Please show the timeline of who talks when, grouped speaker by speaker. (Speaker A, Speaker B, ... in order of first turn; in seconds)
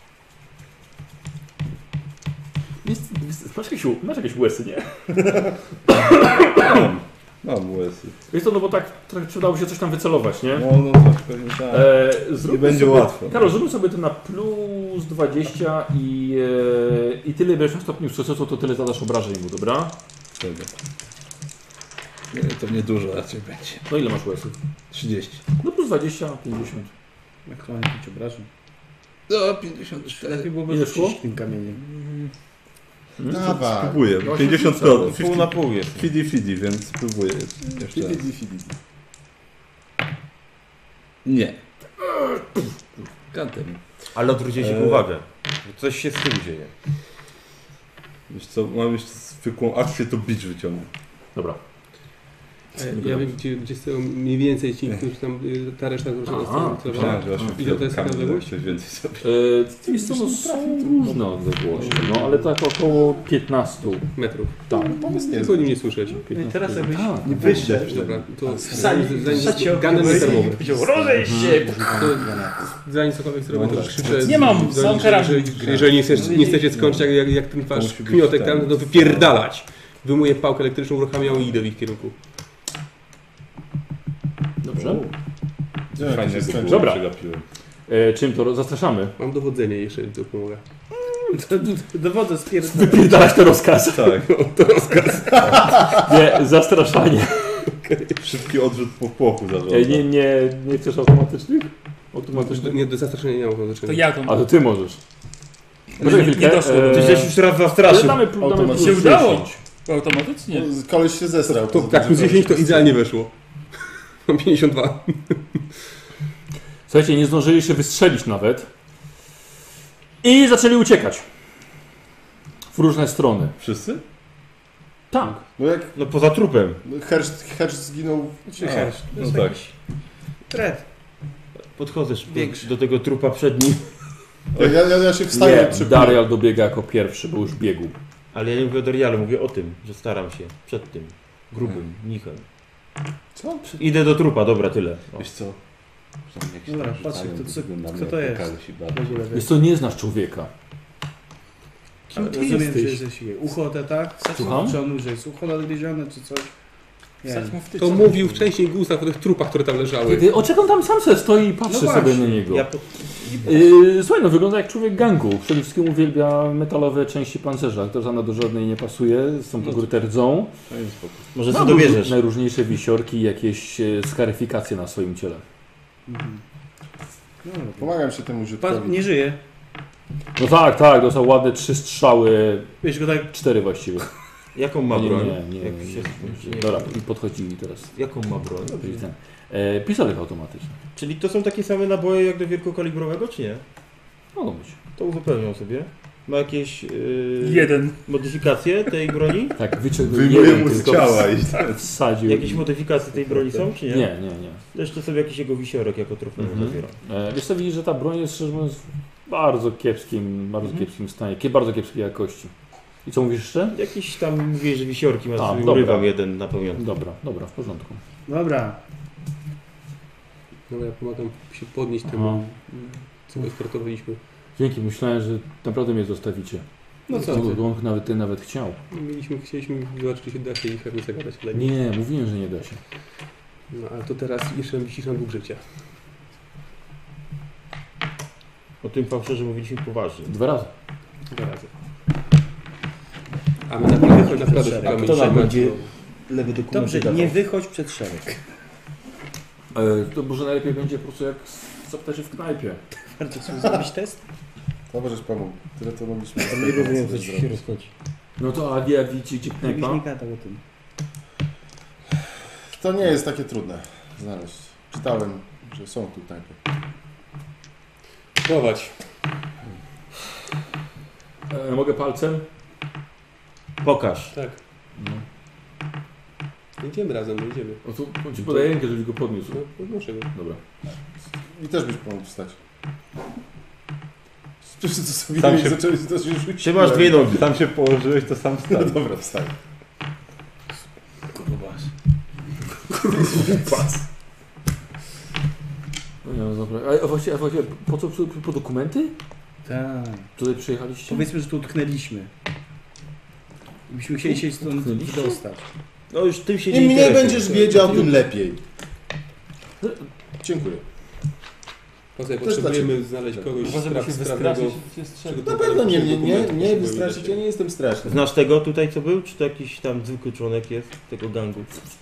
Speaker A: 2.8-6.8, 8.3-10.7, 11.7-19.9, 23.9-24.6, 25.6-26.9, 30.7-31.2, 33.2-33.5, 34.2-35.2, 52.9-53.3, 56.3-57.6, 59.2-64.9, 66.3-67.8, 71.2-71.6, 84.6-85.0, 86.5-87.0, 87.9-89.1, 92.6-94.2, 95.8-97.6, 99.7-102.8, 104.2-105.0, 106.0-109.5, 116.9-118.7, 120.2-121.2, 122.7-123.5, 125.1-125.4, 135.3-137.9, 149.3-150.5, 154.3-154.8, 160.0-162.7, 163.4-170.5, 171.5-175.4, 180.3-184.1, 184.9-187.9, 188.7-190.7, 194.3-194.8, 199.6-202.6, 203.9-204.6, 206.4-212.5, 213.0-213.8, 215.4-216.1, 216.8-218.0, 222.1-222.4, 224.6-228.8, 231.5-232.8, 240.3-240.7, 249.7-252.8, 258.4-260.0, 271.5-272.4, 275.0-275.2, 277.8-279.6, 280.3-280.6, 296.2-299.1, 300.4-301.3, 304.2-305.4, 309.8-310.8
Speaker B: 6.5-8.1, 10.5-13.6, 20.4-20.7, 22.3-23.9, 24.9-25.4, 29.3-30.5, 32.0-32.3, 33.3-38.2, 41.2-41.6, 43.3-43.8, 44.5-45.0, 48.3-50.9, 56.9-59.4, 61.8-62.0, 67.2-68.2, 76.7-77.0, 77.7-79.3, 84.8-85.0, 85.9-87.4, 93.8-94.3, 98.2-100.0, 123.6-124.0, 128.6-129.6, 145.1-145.6, 146.3-149.1, 169.6-169.9, 170.7-171.3, 200.0-201.8, 203.1-203.7, 285.4-285.8, 287.3-289.0
Speaker C: 27.5-28.5, 30.1-31.8, 66.3-68.1, 68.6-71.9, 76.1-76.8, 91.3-93.3, 128.5-129.7, 130.5-130.8, 132.3-132.7, 146.7-149.5, 152.1-156.5, 157.2-157.6, 161.7-162.4, 176.1-176.4, 177.4-177.9, 178.6-179.4, 182.8-183.3, 218.3-218.8, 227.1-227.6, 243.9-245.8, 246.7-248.4, 253.2-254.2, 259.6-260.6, 291.3-291.9, 299.6-300.3, 301.1-302.3, 303.9-305.6
Speaker D: 33.3-34.0, 37.7-38.7, 59.8-62.4, 64.7-65.7, 68.4-72.7, 73.5-76.8, 86.0-86.9, 108.3-109.5, 110.5-112.9, 125.6-125.9, 126.8-128.5, 134.5-136.2, 143.3-143.8, 177.8-179.1, 254.9-257.6, 262.7-266.6, 281.5-282.6, 284.7-287.4, 288.7-289.5, 293.1-294.0, 306.7-308.6, 310.4-310.7, 312.4-313.4, 315.3-318.2
Speaker E: 35.1-36.1, 44.1-46.7, 106.9-108.3, 125.9-126.8, 131.8-133.9, 138.3-142.4, 143.8-145.1, 162.5-163.7, 171.3-172.2, 184.5-186.9, 187.9-188.8, 190.9-193.6, 194.9-199.6, 202.2-204.1, 204.7-206.9, 213.7-216.8, 238.8-240.3, 244.8-247.4, 256.4-257.9, 273.8-274.3, 286.6-287.5, 306.1-307.8, 318.0-321.7
Speaker F: 52.7-58.6, 64.1-64.5, 65.1-66.3, 67.7-70.6, 71.8-82.2, 89.2-90.6, 94.2-95.5, 97.7-98.3, 102.3-104.1, 111.5-113.3, 114.2-115.6, 152.2-152.9, 157.7-160.3, 220.7-222.6, 223.3-224.2, 227.1-227.5, 228.9-231.7, 233.7-235.7, 241.3-241.7, 243.7-245.9, 268.4-269.0, 274.3-274.6, 276.8-277.8, 278.4-278.7, 279.5-280.3, 307.4-308.1, 312.1-317.4
Speaker G: 74.2-75.9, 103.8-104.4, 106.0-107.3, 108.7-110.7, 154.2-154.8, 157.2-158.5, 197.4-198.0, 313.6-315.3